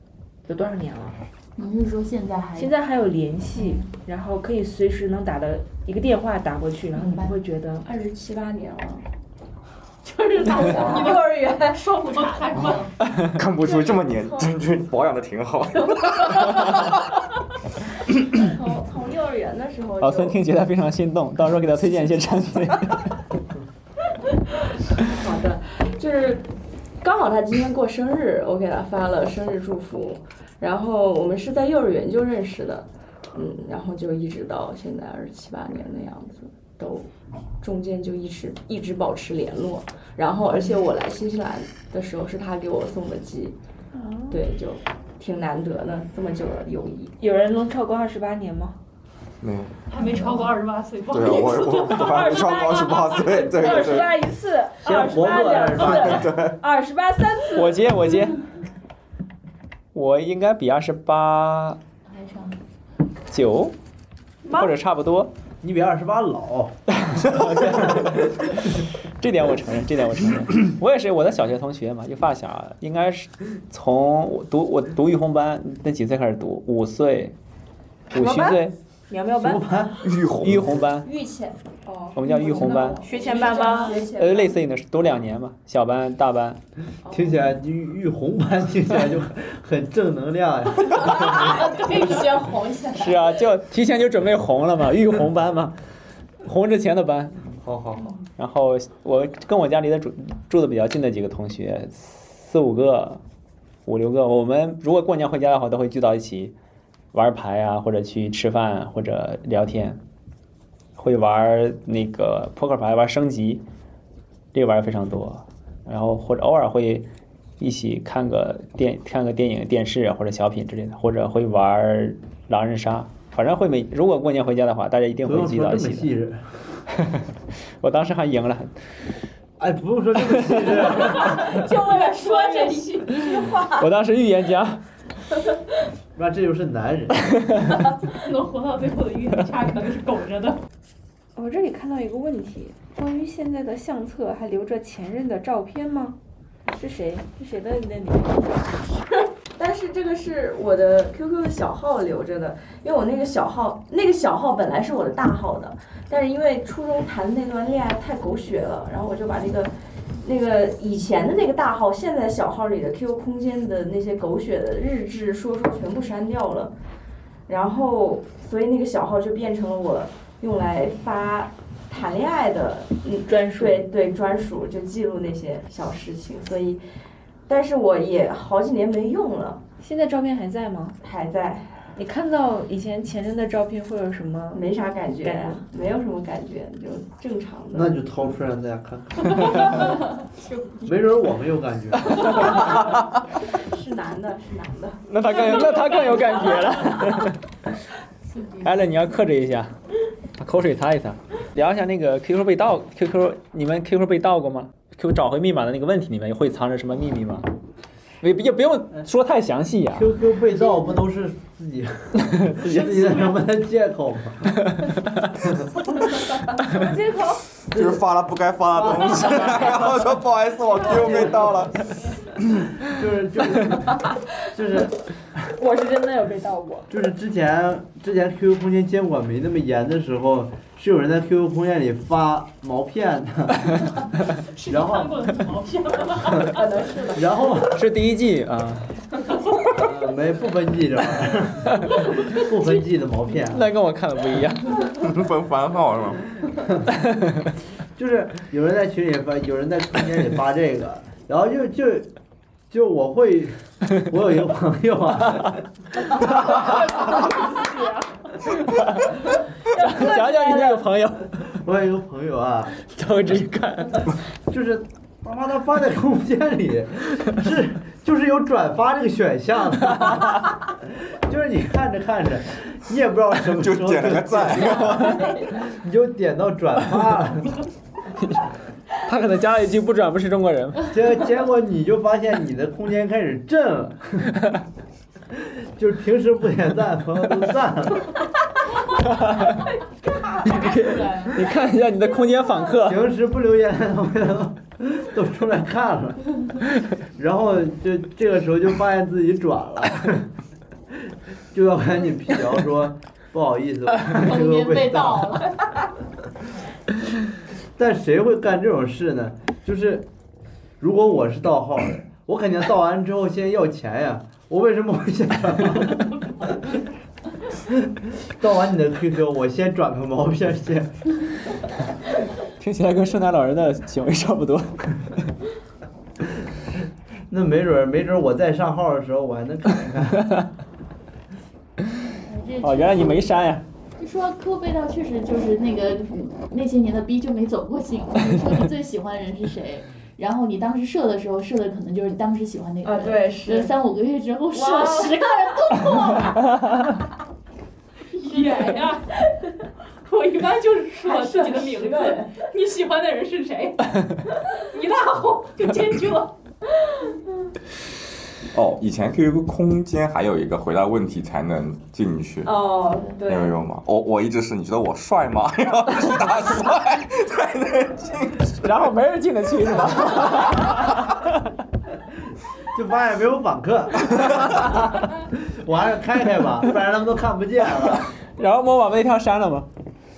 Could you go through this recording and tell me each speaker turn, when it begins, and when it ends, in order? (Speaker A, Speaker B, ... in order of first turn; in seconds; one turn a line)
Speaker A: 0.4-1.2
Speaker B: 1.6-2.7
Speaker A: 2.5-7.9
Speaker B: 7.0-7.3
Speaker C: 7.8-9.1
Speaker D: 10.0-12.9
Speaker C: 10.3-12.8
Speaker E: 13.2-17.1
Speaker C: 13.6-14.6
Speaker C: 15.8-16.9
Speaker C: 18.3-20.4
Speaker F: 20.0-23.1
Speaker C: 25.1-26.5
Speaker C: 27.0-37.1
Speaker C: 37.6-43.6
Speaker A: 43.9-44.4
Speaker C: 44.3-47.1
Speaker A: 47.2-48.8
Speaker E: 49.4-49.8
Speaker D: 49.9-52.1
Speaker E: 51.1-54.2
Speaker A: 51.3-57.9
Speaker G: 54.8-56.3
Speaker E: 55.8-56.6
Speaker F: 57.5-58.4
Speaker F: 59.9-61.8
Speaker B: 62.1-62.6
Speaker F: 63.3-63.8
Speaker A: 64.4-64.7
Speaker F: 64.5-65.3
Speaker G: 65.6-66.8
Speaker F: 67.0-68.5
Speaker F: 69.2-77.3
Speaker F: 78.1-78.7
Speaker A: 78.1-79.7
Speaker G: 79.3-80.0
Speaker E: 80.0-80.7
Speaker F: 80.4-81.1
Speaker C: 80.9-84.6
Speaker F: 82.1-83.0
Speaker A: 83.0-84.1
Speaker F: 84.0-86.6
Speaker C: 87.0-87.4
Speaker G: 87.1-91.6
Speaker C: 91.0-93.2
Speaker F: 92.9-95.8
Speaker F: 96.4-97.4
Speaker G: 97.6-98.2
Speaker F: 98.4-103.2
Speaker F: 103.8-106.5
Speaker F: 107.1-110.0
Speaker F: 111.0-113.6
Speaker F: 114.5-117.1
Speaker F: 117.6-126.1
Speaker G: 125.2-126.4
Speaker F: 127.8-128.7
Speaker G: 129.6-131.6
Speaker D: 130.8-133.4
Speaker C: 131.2-133.9
Speaker F: 133.8-134.8
Speaker G: 136.1-137.4
Speaker D: 138.1-140.6
Speaker A: 141.3-148.9
Speaker C: 149.6-166.7
Speaker C: 167.5-176.8
Speaker A: 173.2-173.9
Speaker C: 177.5-179.6
Speaker A: 179.8-181.0
Speaker C: 181.0-181.8
Speaker A: 181.9-184.7
Speaker C: 184.5-187.9
Speaker A: 185.2-185.7
Speaker G: 187.7-190.0
Speaker G: 190.8-192.7
Speaker C: 192.6-196.8
Speaker F: 195.1-197.4
Speaker F: 198.6-199.7
Speaker F: 200.4-207.5
Speaker F: 208.2-210.1
Speaker G: 209.9-215.8
Speaker A: 216.5-217.4
Speaker E: 217.7-221.9
Speaker G: 217.7-218.0
Speaker G: 218.7-219.5
Speaker A: 219.2-219.5
Speaker G: 222.8-224.0
Speaker G: 224.5-224.9
Speaker A: 225.5-226.9
Speaker G: 226.9-233.9
Speaker D: 234.5-236.6
Speaker G: 234.7-235.2
Speaker G: 236.2-236.6
Speaker C: 236.4-237.6
Speaker G: 237.1-237.8
Speaker F: 237.7-238.9
Speaker G: 239.7-243.7
Speaker F: 243.4-244.9
Speaker E: 244.8-246.2
Speaker G: 247.9-252.1
Speaker G: 252.7-255.7
Speaker G: 256.3-256.7
Speaker A: 256.3-258.1
Speaker F: 258.4-259.1
Speaker A: 259.7-260.9
Speaker F: 259.7-261.6
Speaker G: 261.5-262.7
Speaker F: 262.9-264.1
Speaker G: 264.5-277.6
Speaker E: 273.6-275.4
Speaker F: 279.0-280.9
Speaker G: 280.9-284.3
Speaker G: 285.3-288.1
Speaker F: 289.0-289.7
Speaker C: 290.3-291.2
Speaker F: 290.4-293.1
Speaker G: 292.8-296.4
Speaker G: 297.0-300.3
Speaker G: 301.5-305.5
Speaker B: 304.1-305.6
Speaker G: 307.8-310.1
Speaker G: 310.8-316.6
Speaker G: 317.6-321.1
Speaker F: 322.6-325.0
Speaker G: 327.3-330.4
Speaker B: 332.2-333.2
Speaker F: 332.6-333.6
Speaker B: 334.0-346.6
Speaker C: 342.8-343.8
Speaker C: 344.5-346.4
Speaker D: 348.1-349.2
Speaker D: 350.0-356.3
Speaker C: 351.0-352.4
Speaker E: 358.5-362.5
Speaker C: 362.4-363.6
Speaker E: 363.3-368.7
Speaker F: 368.6-371.3
Speaker E: 370.1-370.7
Speaker G: 372.7-378.1
Speaker F: 378.3-379.7